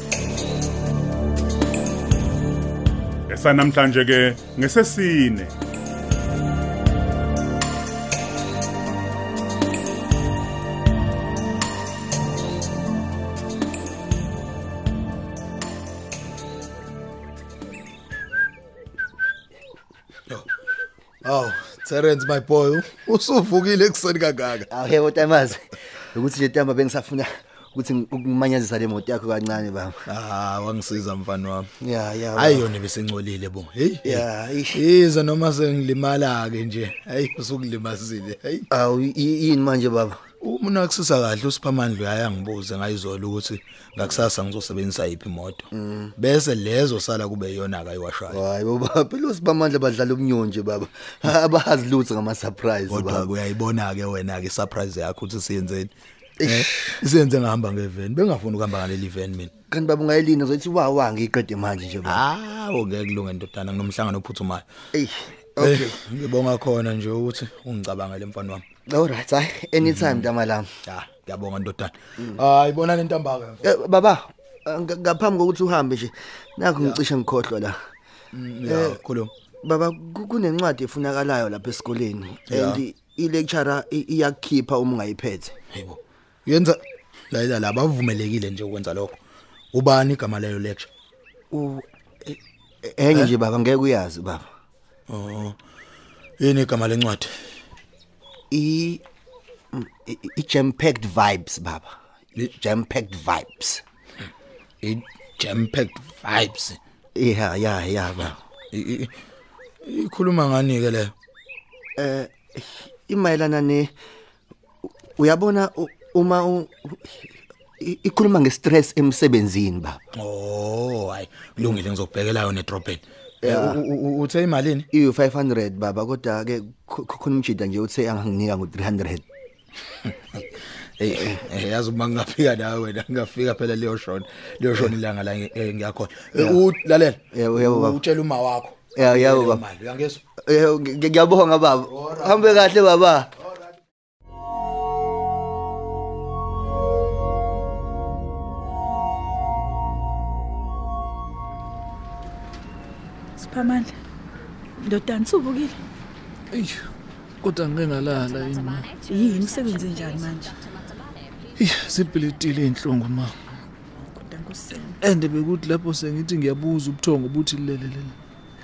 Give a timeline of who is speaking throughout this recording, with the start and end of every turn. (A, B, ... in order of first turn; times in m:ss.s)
0:03.3-0:05.5 A
0:21.2-0:24.7 B
0:24.7-0:30.0 C
0:30.1-0:31.7 B
0:31.8-0:32.7 C
0:32.3-0:38.7 B
0:34.0-0:34.8 C
0:38.7-0:40.2 C
0:40.4-0:48.4 B
0:45.8-0:46.1 C
0:48.3-0:53.3 C
0:52.9-0:59.5 B
0:56.4-0:56.7 C
0:59.7-1:02.2 C
1:02.0-1:04.7 B
1:04.9-1:06.0 C
1:05.6-1:08.6 B
1:08.9-1:10.7 C
1:09.8-1:10.3 B
1:10.8-1:13.7 B
1:13.6-1:17.8 C
1:16.8-1:17.0 B
1:18.3-1:19.3 B
1:18.6-1:19.0 C
1:19.6-1:25.5 C
1:22.4-1:22.8 B
1:25.7-1:26.8 B
1:27.3-1:29.2 B
1:29.7-1:30.9 B
1:31.5-1:34.5 C
1:35.1-1:35.6 B
1:36.4-1:37.3 B
1:38.5-1:39.0 C
1:39.7-1:41.9 C
1:42.5-1:43.8 C
1:44.8-1:46.8 B
1:47.2-1:48.4 C
1:48.7-1:49.1 B
1:49.8-1:51.1 B
1:52.0-1:53.9 C
1:55.2-2:00.0 C
2:00.2-2:04.9 B
2:03.4-2:03.8 C
2:04.9-2:09.2 C
2:10.1-2:20.2 B
2:11.1-2:11.4 C
2:16.4-2:16.6 C
2:17.4-2:18.0 C
2:19.0-2:19.6 C
2:20.4-2:23.3 C
2:21.9-2:22.7 B
2:33.4-2:33.9 D
2:34.8-2:35.8 D
2:36.5-2:36.8 E
2:37.4-2:38.9 E
2:39.0-2:40.6 D
2:41.6-2:43.3 E
2:44.2-2:45.0 D
2:45.0-2:48.1 E